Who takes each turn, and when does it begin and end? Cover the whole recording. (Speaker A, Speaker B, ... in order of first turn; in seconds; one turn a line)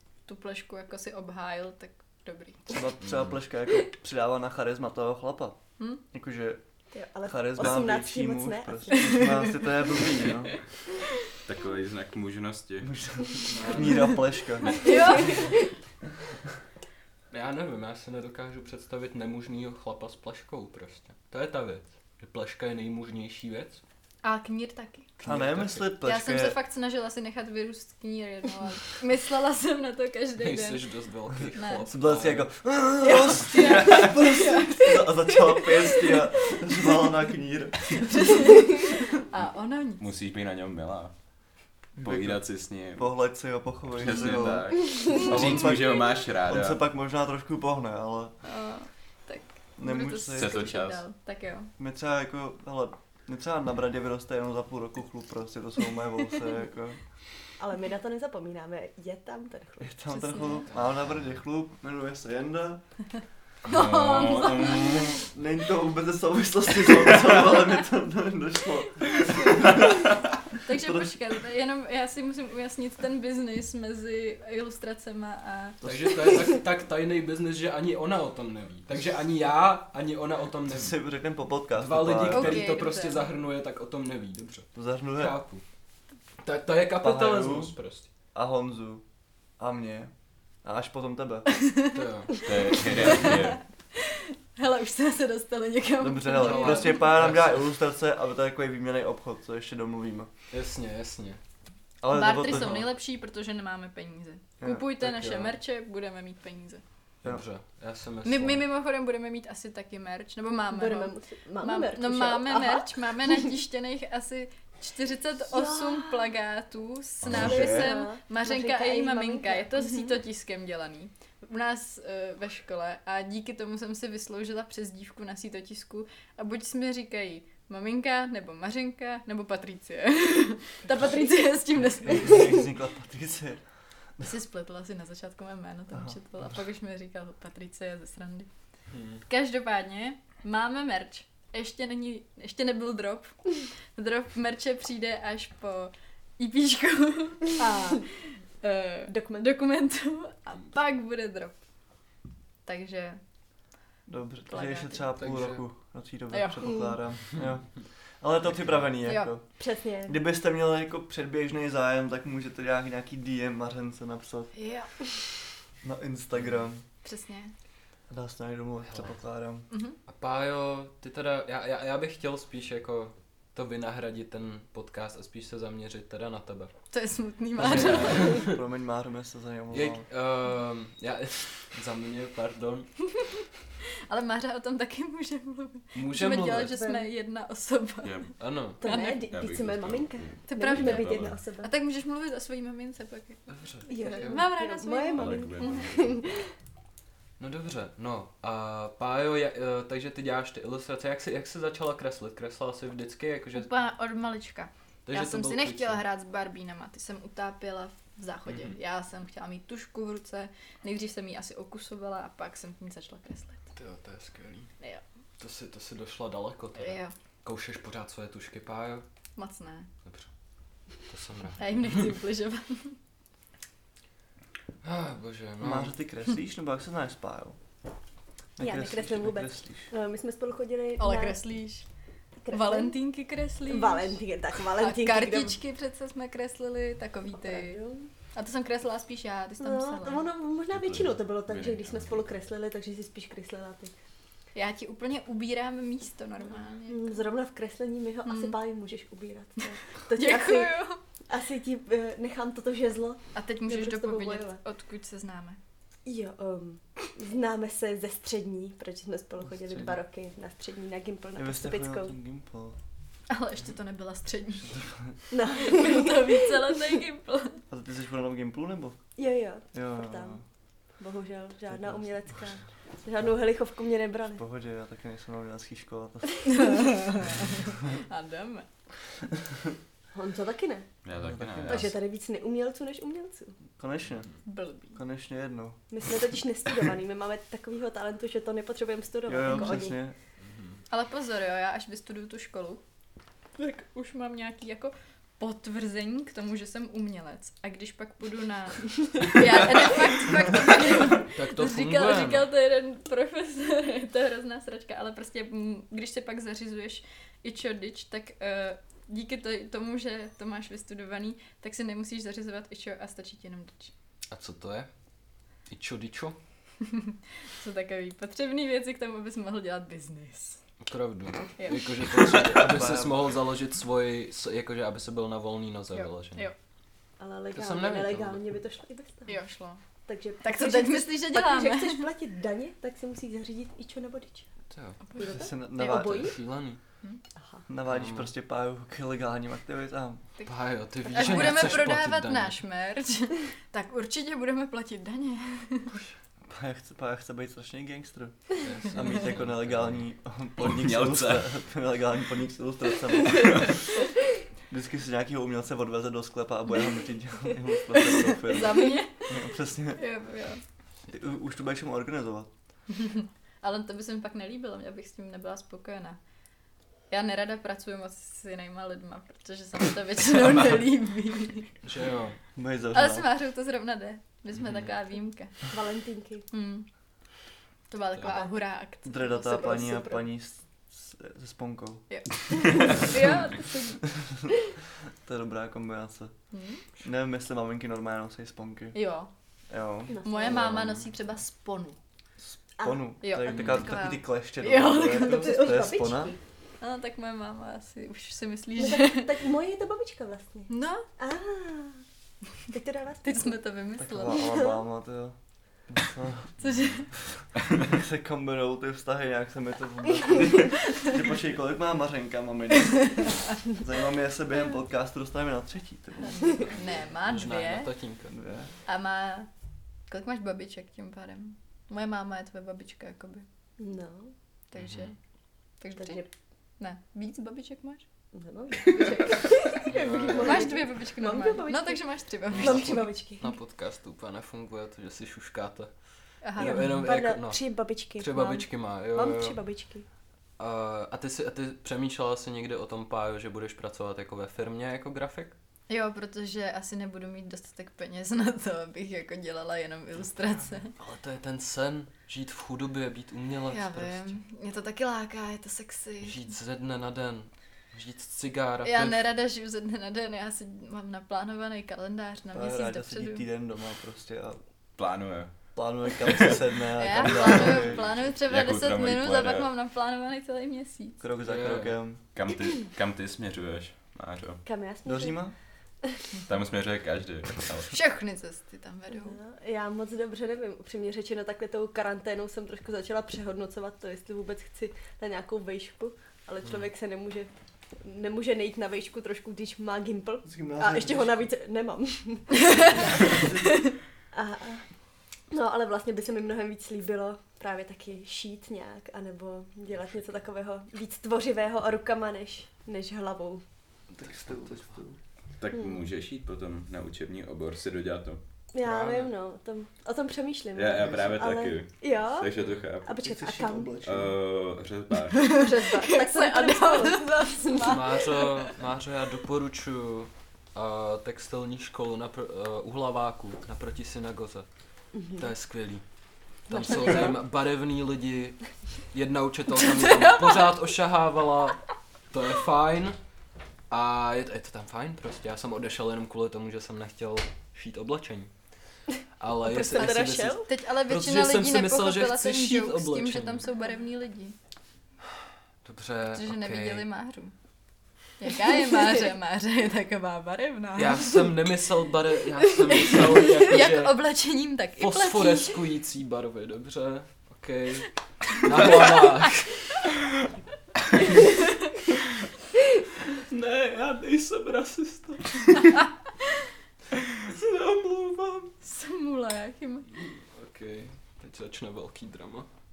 Speaker A: 0.3-2.6
Speaker B: 2.7-5.6
Speaker B: 6.1-6.6
Speaker C: 6.9-9.3
Speaker B: 7.2-10.6
Speaker A: 8.9-9.4
Speaker D: 11.4-12.9
Speaker B: 12.8-15.3
Speaker E: 13.5-14.2
Speaker A: 14.7-15.5
Speaker C: 14.8-15.5
Speaker E: 17.3-23.8
Speaker A: 24.2-25.2
Speaker E: 25.2-25.9
Speaker B: 25.2-26.6
Speaker A: 26.0-30.8
Speaker E: 30.4-32.5
Speaker A: 31.5-31.9
Speaker B: 31.9-38.4
Speaker A: 33.0-36.5
Speaker A: 38.0-40.0
Speaker D: 40.0-41.1
Speaker B: 42.0-48.3
Speaker D: 42.0-43.1
Speaker D: 44.0-46.8
Speaker A: 48.4-51.7
Speaker B: 49.8-50.6
Speaker D: 50.4-51.0
Speaker B: 51.8-57.0
Speaker C: 57.6-59.9
Speaker B: 59.8-62.8
Speaker A: 60.1-60.7
Speaker E: 60.7-61.0
Speaker A: 63.6-65.2
Speaker D: 63.6-65.2
Speaker B: 64.8-70.1
Speaker A: 69.1-69.9
Speaker A: 70.6-75.8
Speaker B: 70.7-71.1
Speaker B: 75.8-76.3
Speaker E: 75.8-81.0
Speaker B: 80.7-82.7
Speaker E: 81.7-85.6
Speaker A: 82.3-83.3
Speaker B: 84.8-85.4
Speaker E: 86.4-88.1
Speaker B: 87.0-87.7
Speaker B: 88.3-89.0
Speaker B: 89.6-90.1
Speaker B: 90.6-91.5
Speaker A: 91.6-92.0
Speaker E: 91.9-92.9
Speaker D: 92.4-93.6
Speaker A: 93.0-97.1
Speaker B: 96.0-100.3
Speaker E: 96.3-97.7
Speaker E: 100.5-101.4
Speaker B: 102.0-102.8
Speaker A: 102.1-106.8
Speaker E: 102.5-102.8
Speaker B: 104.6-104.9
Speaker E: 105.0-105.6
Speaker E: 107.2-108.6
Speaker A: 108.2-132.5
Speaker C: 110.7-113.5
Speaker C: 115.5-116.3
Speaker D: 117.3-117.6
Speaker C: 117.3-120.1
Speaker B: 117.3-117.9
Speaker B: 131.9-133.6
Speaker A: 134.2-138.5
Speaker E: 138.9-139.2
Speaker A: 139.3-151.6
Speaker C: 149.1-149.5
Speaker A: 152.7-153.2
Speaker B: 154.1-164.5
Speaker A: 154.5-155.1
Speaker E: 155.2-155.6
Speaker A: 156.3-156.8
Speaker C: 156.6-156.9
Speaker A: 159.0-159.3
Speaker C: 159.6-160.2
Speaker A: 164.5-164.9
Speaker B: 165.8-166.8
Speaker A: 167.0-167.5
Speaker B: 168.1-169.7
Speaker E: 168.8-169.1
Speaker A: 169.7-170.0
Speaker E: 170.1-176.7
Speaker A: 176.9-178.4
Speaker E: 177.6-178.6
Speaker B: 177.6-180.0
Speaker E: 179.7-182.9
Speaker A: 184.1-189.2
Speaker E: 185.9-186.8
Speaker C: 186.7-187.1
Speaker D: 188.0-188.4
Speaker E: 188.4-188.8
Speaker C: 188.8-191.7
Speaker D: 188.9-191.4
Speaker A: 190.5-195.9
Speaker E: 193.5-194.4
Speaker C: 193.9-196.4
Speaker D: 195.1-196.4
Speaker E: 197.4-203.7
Speaker A: 203.5-213.6
Speaker E: 205.1-206.0
Speaker E: 208.5-208.8
Speaker E: 213.8-214.7
Speaker E: 215.4-219.1
Speaker A: 216.8-217.1
Speaker A: 219.4-219.9
Speaker E: 220.1-220.3
Speaker E: 221.0-222.1
Speaker A: 221.6-223.0
Speaker E: 224.8-225.9
Speaker B: 225.6-227.6
Speaker B: 228.6-229.9
Speaker C: 228.6-231.4
Speaker A: 231.0-231.8
Speaker C: 232.4-233.0
Speaker A: 232.5-237.8
Speaker C: 233.7-235.6
Speaker C: 237.4-238.1
Speaker A: 238.3-240.3
Speaker C: 239.6-243.9
Speaker D: 240.7-242.3
Speaker A: 244.5-247.2
Speaker C: 246.9-250.8
Speaker A: 248.3-248.6
Speaker A: 250.1-251.0
Speaker C: 251.3-254.6
Speaker A: 253.3-255.6
Speaker C: 256.1-262.1
Speaker B: 259.6-260.0
Speaker B: 261.4-262.8
Speaker A: 263.3-264.8
Speaker C: 265.3-266.4
Speaker A: 265.5-267.6
Speaker B: 267.7-269.0
Speaker C: 269.2-270.4
Speaker B: 269.7-270.4
Speaker C: 271.0-274.4
Speaker B: 271.7-272.5
Speaker B: 274.4-276.4
Speaker A: 276.6-278.7
Speaker C: 280.1-280.9
Speaker D: 281.0-282.0
Speaker B: 281.2-281.9
Speaker C: 281.7-283.6
Speaker B: 283.8-284.3
Speaker A: 284.4-285.0
Speaker B: 284.9-285.8
Speaker C: 285.9-290.0
Speaker B: 289.3-290.2
Speaker A: 289.5-289.7
Speaker E: 290.4-290.8
Speaker A: 290.9-292.8
Speaker A: 293.6-313.9
Speaker E: 301.3-302.5
Speaker E: 314.3-314.9
Speaker E: 315.7-316.4
Speaker A: 316.9-320.6
Speaker E: 320.8-326.5
Speaker A: 321.6-321.9
Speaker B: 322.6-323.2
Speaker A: 325.9-326.6
Speaker C: 327.2-329.4
Speaker E: 327.5-328.4
Speaker A: 329.3-329.8
Speaker C: 330.1-334.5
Speaker A: 330.4-332.1
Speaker E: 334.7-335.0
Speaker C: 335.2-336.4
Speaker B: 335.2-336.4
Speaker E: 335.8-336.8
Speaker C: 337.4-337.6
Speaker B: 337.7-340.2
Speaker E: 337.9-338.3
Speaker E: 340.5-342.6
Speaker A: 341.1-345.9
Speaker B: 346.5-353.9
Speaker E: 348.6-350.0
Speaker D: 350.6-351.5
Speaker B: 354.7-360.0
Speaker A: 358.4-360.6
Speaker B: 361.1-362.5
Speaker A: 363.1-366.2
Speaker A: 367.1-371.8
Speaker E: 371.8-372.4
Speaker B: 372.6-373.3
Speaker A: 372.9-375.6
Speaker C: 375.7-376.5
Speaker A: 376.5-376.9
Speaker A: 377.9-379.9
Speaker B: 379.1-382.1
Speaker C: 379.4-380.2
Speaker A: 382.1-384.0
Speaker C: 383.0-384.0
Speaker B: 385.2-386.3
Speaker A: 386.5-386.8
Speaker B: 387.0-389.0
Speaker A: 388.9-389.3
Speaker B: 389.7-390.2
Speaker C: 390.1-390.8
Speaker A: 390.2-392.0
Speaker E: 390.8-391.0
Speaker B: 392.5-396.4
Speaker C: 392.8-393.1
Speaker A: 393.2-395.8
Speaker E: 393.5-393.9
Speaker C: 395.1-396.4
Speaker A: 396.8-399.3
Speaker C: 398.8-402.0
Speaker A: 400.7-401.1
Speaker C: 402.7-403.6
Speaker A: 403.2-404.6
Speaker B: 404.0-405.4
Speaker C: 404.4-404.8
Speaker B: 405.9-406.6
Speaker A: 406.6-407.1
Speaker E: 406.6-407.0
Speaker B: 407.7-416.7
Speaker A: 416.3-417.9
Speaker E: 417.2-418.3
Speaker B: 418.3-418.7
Speaker A: 418.9-419.5
Speaker A: 420.1-423.5
Speaker C: 423.8-424.3
Speaker A: 424.7-425.2
Speaker E: 424.8-425.1
Speaker A: 425.8-426.3
Speaker C: 426.0-426.3
Speaker A: 426.8-428.0
Speaker C: 428.3-433.5
Speaker A: 428.9-433.0
Speaker E: 429.9-430.8
Speaker E: 432.5-439.6
Speaker A: 436.4-436.9
Speaker C: 436.6-440.1
Speaker E: 440.6-445.5
Speaker A: 445.9-450.9
Speaker E: 450.9-454.4
Speaker A: 453.7-456.4
Speaker E: 456.2-459.2
Speaker A: 458.8-463.4
Speaker B: 462.5-464.6
Speaker D: 465.0-466.5
Speaker B: 465.8-468.1
Speaker A: 467.0-471.2
Speaker D: 467.3-469.7
Speaker B: 471.2-472.2
Speaker E: 471.5-472.0
Speaker D: 472.3-474.6
Speaker C: 474.6-475.5
Speaker B: 475.1-475.5
Speaker D: 476.5-478.0
Speaker A: 477.9-479.4
Speaker C: 479.1-493.6
Speaker B: 490.4-491.5
Speaker B: 493.3-493.6
Speaker C: 494.3-494.9
Speaker C: 495.5-503.6
Speaker E: 504.1-505.0
Speaker B: 504.2-505.2
Speaker D: 505.6-508.4
Speaker C: 505.7-506.1
Speaker C: 508.7-512.5
Speaker E: 508.8-509.3
Speaker D: 510.8-513.2
Speaker E: 512.6-512.9
Speaker C: 513.0-514.0
Speaker B: 513.2-514.4
Speaker D: 514.0-515.5
Speaker A: 515.3-518.5
Speaker C: 515.5-518.2
Speaker E: 517.8-524.7
Speaker C: 525.1-525.5
Speaker E: 525.2-526.0
Speaker E: 526.7-533.2
Speaker C: 526.7-527.4
Speaker A: 530.0-530.7
Speaker E: 533.9-538.5
Speaker E: 539.4-543.6
Speaker C: 539.6-540.7
Speaker A: 540.0-544.5
Speaker E: 545.8-547.0
Speaker A: 546.3-547.5
Speaker A: 548.4-551.4
Speaker E: 551.0-554.2
Speaker A: 552.9-555.8
Speaker E: 555.0-560.1
Speaker A: 558.8-559.1
Speaker E: 563.3-566.0
Speaker E: 567.3-568.7
Speaker A: 568.8-570.1
Speaker E: 570.1-572.7